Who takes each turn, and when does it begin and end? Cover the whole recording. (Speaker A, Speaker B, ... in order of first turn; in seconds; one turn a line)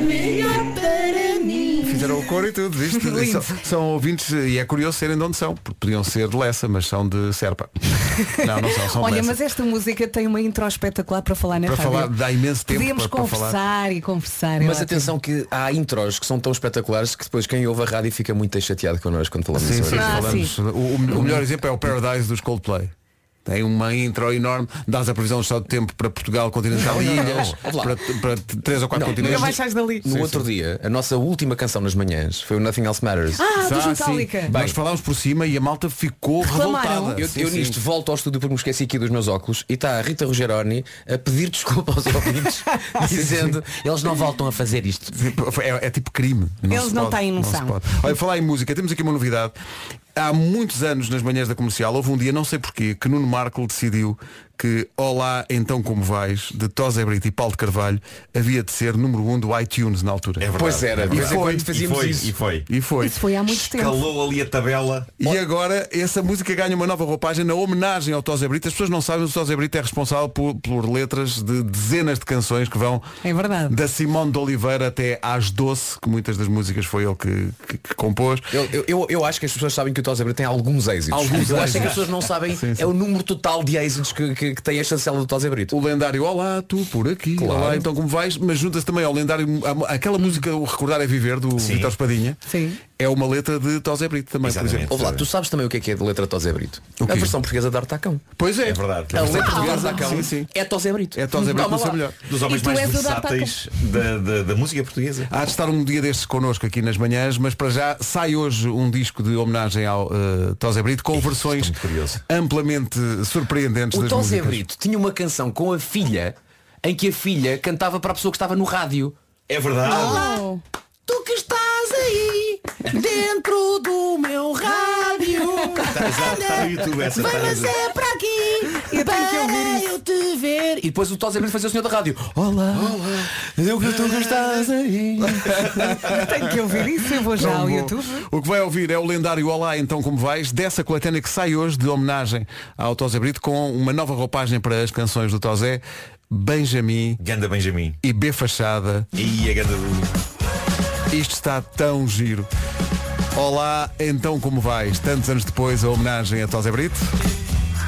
Speaker A: 1.8-9.4
Speaker B: 2.9-3.6
Speaker B: 8.8-12.1
Speaker A: 11.6-13.6
Speaker B: 12.7-15.1
Speaker C: 14.6-20.4
Speaker A: 19.5-22.9
Speaker B: 19.9-20.5
Speaker C: 21.1-21.4
Speaker A: 23.4-30.4
Speaker C: 26.7-28.0
Speaker C: 28.9-33.4
Speaker B: 29.2-30.1
Speaker B: 33.4-34.5
Speaker A: 33.6-37.8
Speaker C: 34.5-34.8
Speaker B: 36.4-37.2
Speaker C: 37.2-45.1
Speaker A: 43.1-43.5
Speaker A: 45.1-49.5
Speaker B: 46.7-47.8
Speaker A: 50.1-60.5
Speaker D: 60.4-62.7
Speaker C: 60.5-62.3
Speaker A: 61.1-61.7
Speaker A: 62.7-63.2
Speaker B: 63.0-64.1
Speaker D: 63.5-65.2
Speaker A: 65.2-73.0
Speaker B: 73.2-73.8
Speaker A: 73.7-78.5
Speaker C: 78.5-85.7
Speaker A: 81.1-82.9
Speaker A: 85.7-92.4
Speaker C: 87.4-87.8
Speaker D: 91.6-91.9
Speaker B: 92.5-92.8
Speaker A: 93.0-94.9
Speaker D: 94.4-95.3
Speaker C: 94.9-98.2
Speaker A: 97.0-97.3
Speaker A: 98.4-100.5
Speaker D: 98.6-99.6
Speaker C: 99.1-102.0
Speaker B: 99.5-100.1
Speaker A: 101.1-102.2
Speaker D: 102.2-105.3
Speaker B: 102.4-103.6
Speaker A: 105.3-114.6
Speaker D: 111.1-112.2
Speaker C: 113.9-119.1
Speaker D: 119.5-120.3
Speaker C: 119.8-120.3
Speaker B: 119.8-120.6
Speaker C: 121.1-136.1
Speaker D: 125.9-127.8
Speaker B: 128.8-129.9
Speaker A: 135.5-136.2
Speaker B: 136.0-138.2
Speaker A: 137.3-147.2
Speaker D: 147.2-148.0
Speaker A: 148.0-149.1
Speaker D: 149.1-150.1
Speaker A: 151.1-152.5
Speaker A: 153.3-157.1